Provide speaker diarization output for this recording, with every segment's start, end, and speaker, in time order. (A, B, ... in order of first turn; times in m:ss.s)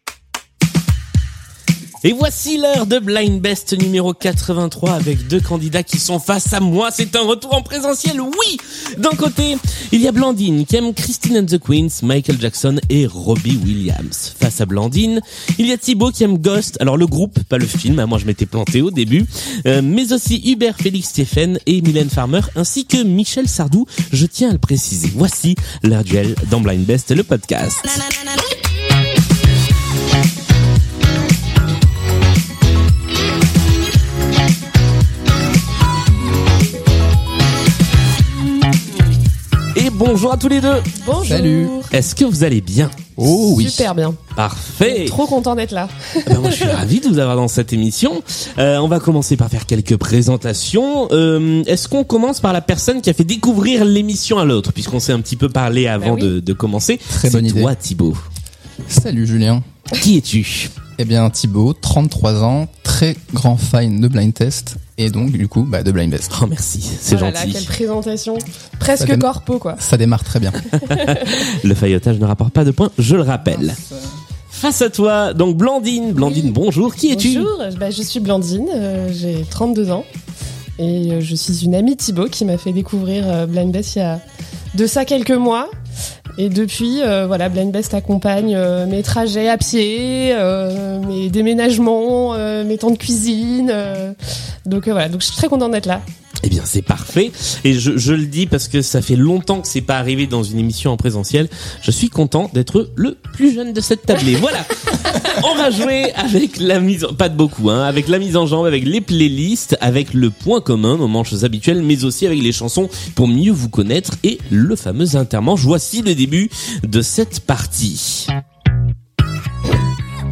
0:02.0-0:28.0 A
0:39.7-0:40.9 A
0:41.0-0:41.9 B
0:41.2-0:41.7 C
0:41.9-0:43.0 A
0:43.2-0:43.9 C
0:43.2-0:44.2 B
0:44.3-0:45.2 A
0:44.8-0:46.8 B
0:46.2-0:58.2 A
0:56.0-0:56.3 B
0:57.1-0:57.7 C
0:58.8-0:59.6 C
1:00.0-1:00.7 A
1:01.0-1:06.3 C
1:06.3-1:07.7 A
1:07.1-1:09.8 B
1:09.0-1:10.6 C
1:10.8-1:11.3 B
1:11.0-1:13.8 A
1:13.5-1:14.0 C
1:14.5-1:17.5 A
1:16.2-1:16.5 B
1:17.1-1:20.1 B
1:20.8-1:24.2 B
1:24.7-1:25.7 B
1:26.4-1:36.0 B
1:36.4-1:58.3 A